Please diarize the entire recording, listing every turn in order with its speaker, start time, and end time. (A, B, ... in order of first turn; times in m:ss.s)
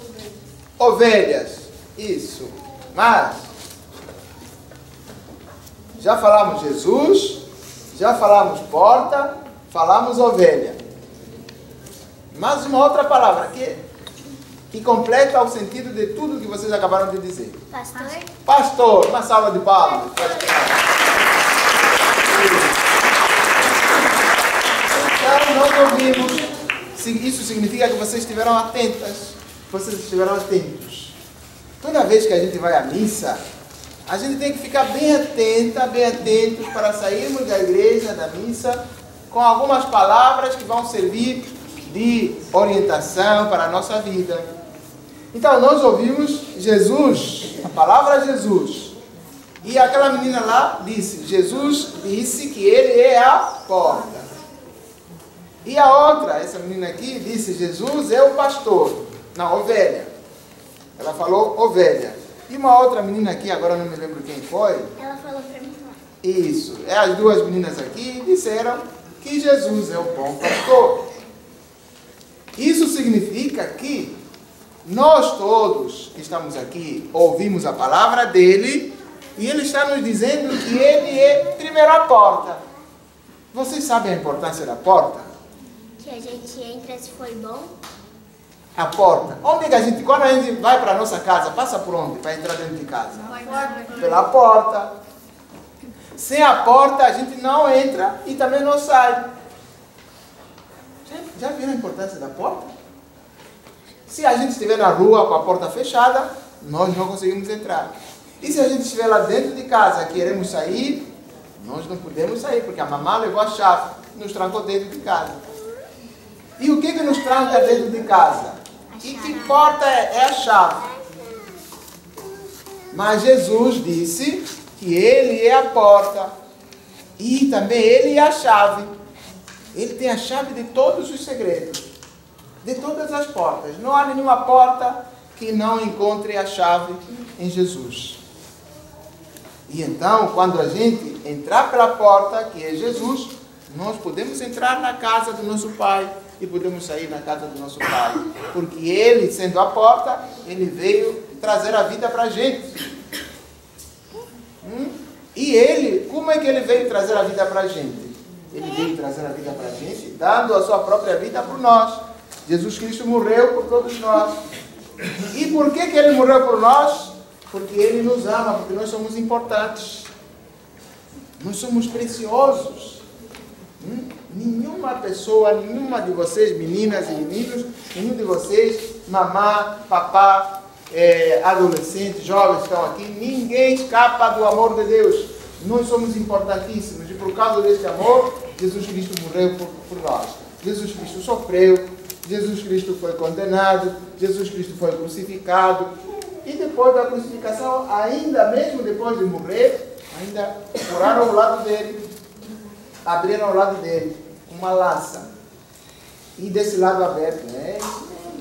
0:00.8-0:03.5 A
0:06.0-0:10.8 A
0:12.3-0:13.8 A
0:14.7-0:17.6 A
0:17.7-0:18.3 B
0:18.5-0:20.8 A
0:22.2-0:22.7 A
0:24.9-0:31.2 A
0:31.8-0:33.4 A
0:34.1-0:44.5 A
0:45.3-0:48.9 A
0:49.6-0:54.3 A
0:55.6-1:00.1 A
1:01.0-1:04.9 A
1:05.0-1:06.0 B
1:06.2-1:11.0 A
1:12.6-1:14.2 A
1:14.8-1:22.6 A
1:23.5-1:25.3 A
1:26.0-1:27.7 B
1:28.8-1:33.4 A
1:33.4-1:34.0 B
1:34.0-1:34.9 A
1:36.2-1:39.3 A
1:41.0-1:42.7 A
1:44.1-1:55.4 A
1:56.6-2:00.8 A
1:58.9-1:59.6 B
2:02.9-2:06.3 A
2:07.2-2:08.9 A
2:09.7-2:11.9 A
2:12.6-2:18.2 A
2:19.7-2:32.8 A
2:34.6-2:44.4 A
2:45.3-2:50.1 A
2:51.4-2:53.0 A
2:53.8-3:15.9 A
3:16.4-3:22.0 A
3:23.0-3:25.3 A
3:26.4-3:28.1 A